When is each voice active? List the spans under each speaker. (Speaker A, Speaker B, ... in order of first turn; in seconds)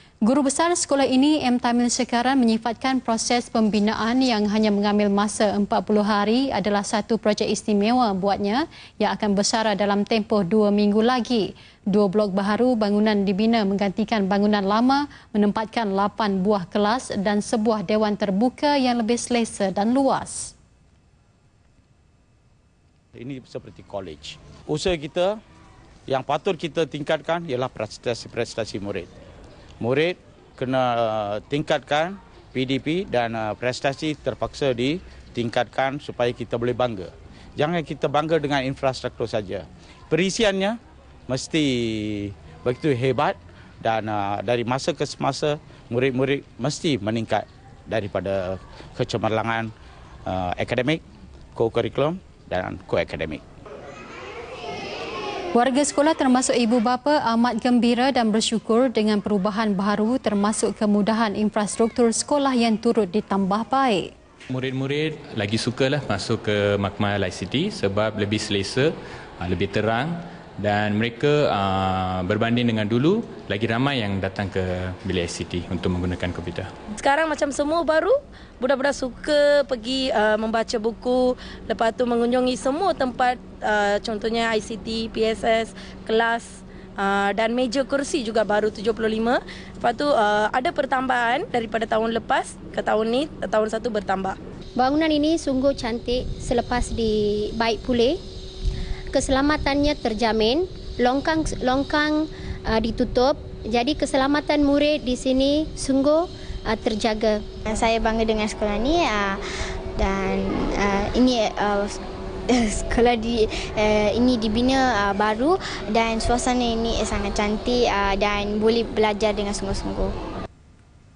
Speaker A: 0.2-20.5, 55.5-64.1
Speaker B: 23.1-25.4, 26.1-29.1, 29.8-40.8, 41.3-49.7, 50.2-51.0, 51.5-53.4
Speaker C: 64.5-76.7
Speaker D: 76.9-94.4
Speaker E: 94.8-98.2, 99.1-107.4
Speaker F: 107.7-109.4, 110.0-112.0, 112.5-120.1